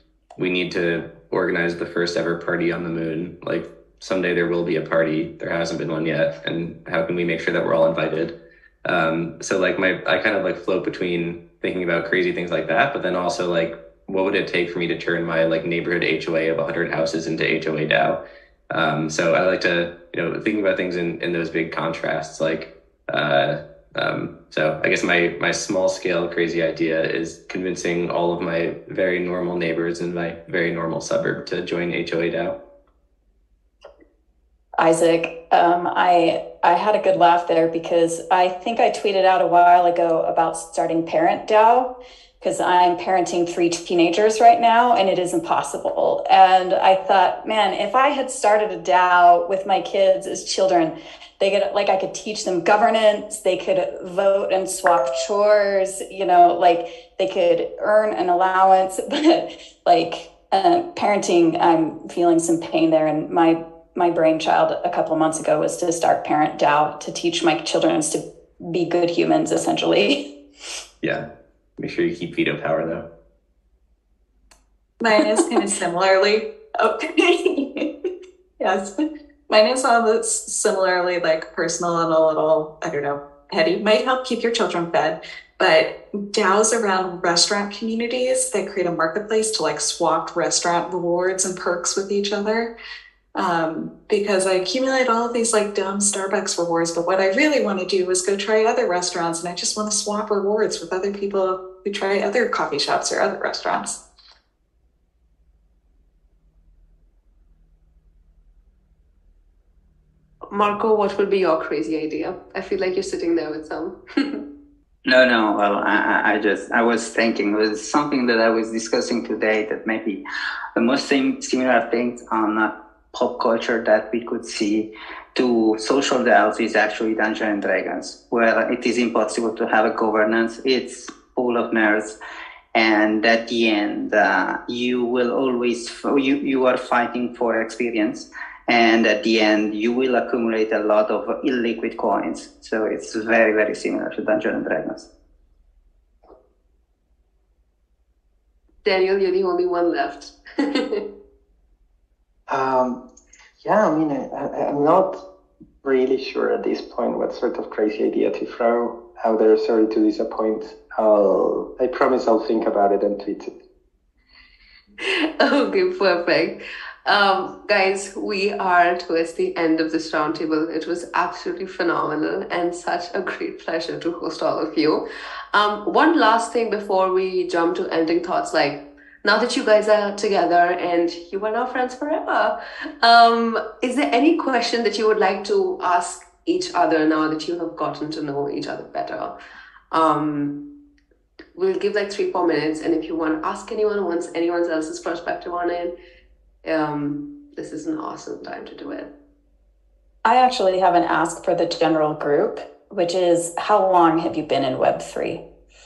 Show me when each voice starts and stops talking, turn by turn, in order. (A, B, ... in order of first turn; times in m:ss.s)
0:00.4-0:32.6 A
0:34.8-1:10.3 B
1:11.0-1:11.3 A
1:11.8-1:13.1 A
1:15.0-1:17.9 C
1:18.6-1:32.7 C
1:33.4-1:44.0 C
1:50.5-1:54.5 D
1:55.1-2:00.2 E
2:00.8-2:12.2 E
2:12.8-2:25.1 E
2:28.8-2:31.1 D
2:32.5-2:33.0 F
2:33.6-2:35.2 F
2:35.8-2:43.5 F
2:45.0-3:09.4 D
3:09.9-3:10.7 D
3:11.6-3:16.0 D
3:16.6-3:19.1 D
3:20.2-3:25.4 B